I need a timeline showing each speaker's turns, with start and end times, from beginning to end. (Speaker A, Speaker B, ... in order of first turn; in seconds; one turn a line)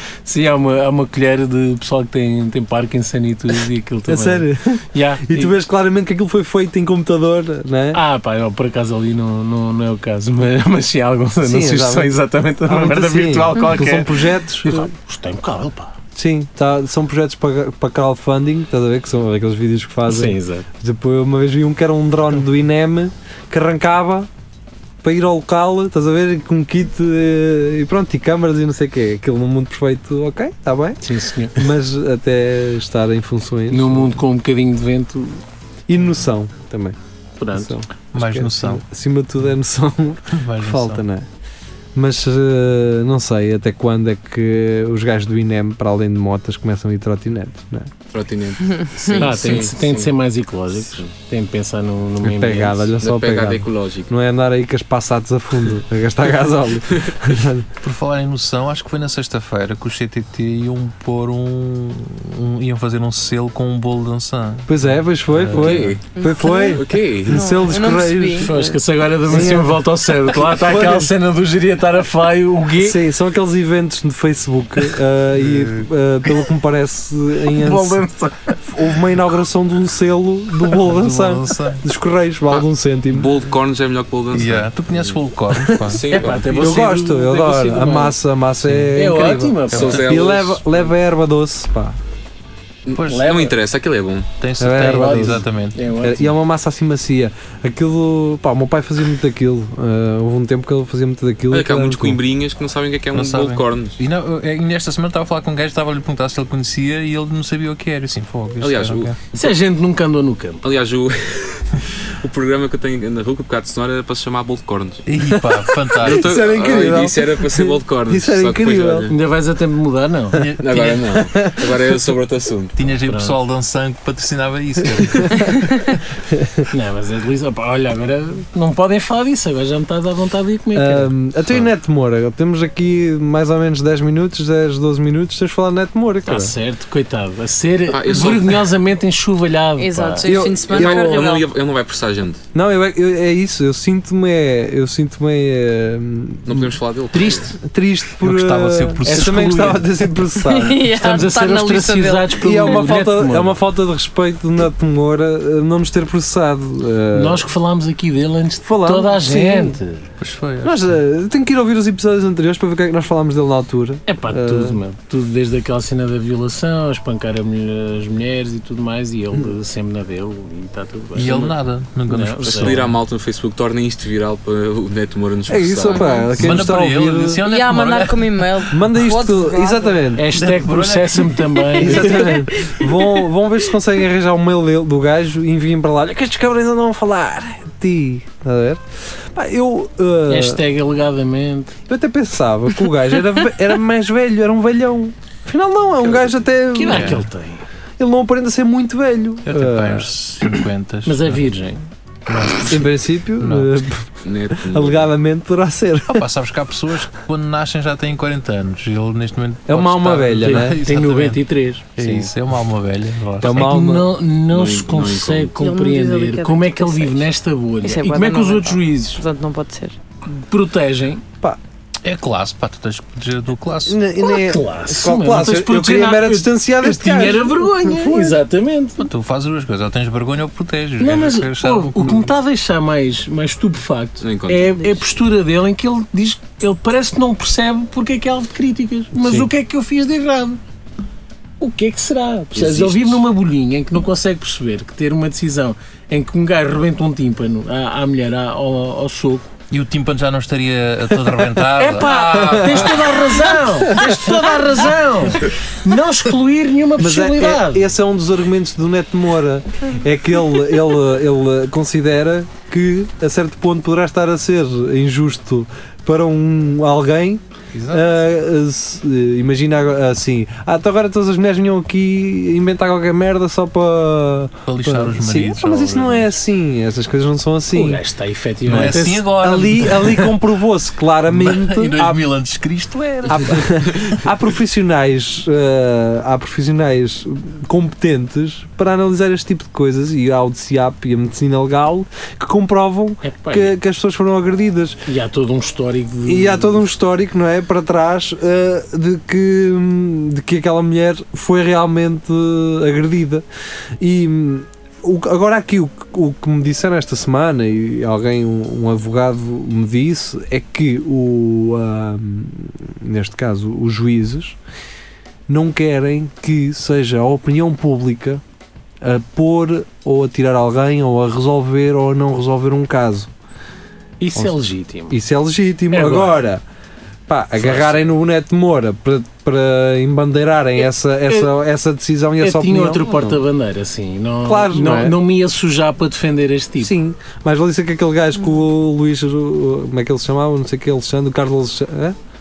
Speaker A: 0.3-5.5
Speaker B: 4.1-8.0
Speaker A: 7.9-15.9
Speaker B: 11.4-14.9
Speaker B: 16.1-24.3
Speaker A: 20.1-20.7
Speaker B: 25.0-34.2
Speaker A: 31.0-31.7
Speaker A: 33.7-35.4
Speaker B: 35.9-37.0
Speaker A: 37.4-37.8
Speaker B: 37.5-41.3
Speaker C: 38.1-38.8
Speaker C: 40.3-41.0
Speaker B: 42.0-47.9
Speaker D: 48.1-50.1
Speaker E: 48.7-49.3
Speaker A: 49.1-52.9
Speaker B: 52.2-57.7
Speaker D: 53.0-54.1
Speaker C: 57.8-64.8
Speaker B: 64.7-68.6
Speaker C: 65.3-66.0
Speaker D: 65.5-66.1
Speaker E: 66.2-68.8
Speaker D: 66.7-67.6
Speaker A: 68.4-73.0
Speaker B: 69.2-71.1
Speaker B: 72.8-78.1
Speaker C: 75.5-75.8
Speaker A: 77.5-78.7
Speaker B: 78.6-83.3
Speaker C: 80.7-81.8
Speaker D: 82.5-85.2
Speaker C: 84.3-86.4
Speaker B: 85.5-86.0
Speaker D: 85.9-86.7
Speaker A: 86.1-88.2
Speaker B: 86.5-92.0
Speaker C: 88.6-89.0
Speaker A: 88.9-90.1
Speaker C: 89.7-90.2
Speaker D: 89.7-90.9
Speaker D: 92.9-94.3
Speaker C: 92.9-93.4
Speaker A: 93.1-93.6
Speaker C: 94.4-95.8
Speaker B: 94.6-95.5
Speaker A: 94.9-96.3
Speaker B: 96.0-102.2
Speaker D: 101.5-104.0
Speaker C: 103.1-109.2
Speaker D: 108.6-109.4
Speaker A: 109.3-110.6
Speaker D: 110.6-115.0
Speaker C: 115.1-116.3
Speaker B: 115.3-119.1
Speaker D: 116.0-119.1
Speaker A: 119.1-120.4
Speaker C: 120.3-121.4
Speaker D: 120.6-122.8
Speaker B: 121.2-122.0
Speaker C: 122.8-125.5
Speaker A: 123.1-123.4
Speaker B: 125.2-125.5
Speaker B: 126.3-126.7
Speaker A: 126.7-131.1
Speaker B: 130.7-136.6
Speaker A: 136.3-140.3
Speaker D: 137.9-138.7
Speaker E: 139.8-141.5
Speaker B: 140.2-141.3
Speaker D: 140.7-142.4
Speaker B: 142.5-150.9
Speaker D: 146.5-147.5
Speaker A: 147.1-147.5
Speaker C: 148.2-149.8
Speaker A: 149.1-149.9
Speaker E: 150.4-152.8
Speaker A: 150.9-153.6
Speaker B: 152.4-157.4
Speaker A: 157.1-160.1
Speaker B: 158.7-159.8
Speaker C: 160.2-161.0
Speaker B: 160.6-164.8
Speaker A: 164.1-171.6
Speaker C: 171.2-173.0
Speaker A: 172.1-172.8
Speaker D: 172.5-176.2
Speaker B: 175.5-177.4
Speaker E: 175.9-176.3
Speaker C: 176.4-178.7
Speaker E: 177.4-180.1
Speaker B: 178.7-180.3
Speaker A: 180.2-182.4
Speaker C: 180.3-181.8
Speaker B: 181.8-188.8
Speaker E: 182.0-183.2
Speaker B: 189.3-190.6
Speaker A: 190.3-191.8
Speaker B: 191.9-197.2
Speaker A: 196.7-197.6
Speaker C: 196.9-197.2
Speaker B: 198.0-200.1
Speaker C: 199.5-201.4
Speaker A: 201.1-201.8
Speaker C: 202.3-203.8
Speaker B: 202.7-206.3
Speaker D: 204.2-205.1
Speaker C: 206.1-211.4
Speaker B: 209.7-210.8
Speaker A: 210.4-212.3
Speaker C: 212.0-213.8
Speaker B: 213.4-214.1
Speaker A: 213.4-219.2
Speaker D: 214.5-215.5
Speaker E: 215.6-217.3
Speaker E: 217.8-220.0
Speaker A: 220.3-221.2
Speaker C: 222.0-224.0
Speaker B: 223.9-228.4
Speaker A: 224.2-229.1
Speaker C: 229.0-232.3
Speaker A: 231.0-240.6
Speaker D: 234.2-234.9
Speaker B: 239.2-239.5
Speaker A: 241.6-249.5
Speaker D: 242.5-243.2
Speaker C: 249.7-253.4
Speaker A: 251.7-257.9
Speaker B: 252.6-252.9
Speaker B: 253.9-254.4
Speaker B: 257.0-278.0
Speaker C: 267.7-268.1
Speaker C: 274.7-276.3
Speaker A: 277.7-279.3
Speaker C: 278.7-280.4
Speaker B: 278.7-282.2
Speaker C: 281.3-284.2
Speaker B: 283.3-295.0
Speaker A: 293.2-293.8
Speaker A: 295.1-296.8
Speaker B: 296.2-303.4
Speaker B: 304.0-314.6
Speaker B: 315.5-318.4
Speaker B: 319.0-323.3
Speaker A: 324.2-325.2
Speaker B: 325.1-326.6
Speaker A: 325.9-326.4
Speaker B: 327.3-333.4
Speaker A: 332.4-336.9
Speaker B: 334.4-335.2
Speaker B: 336.8-342.2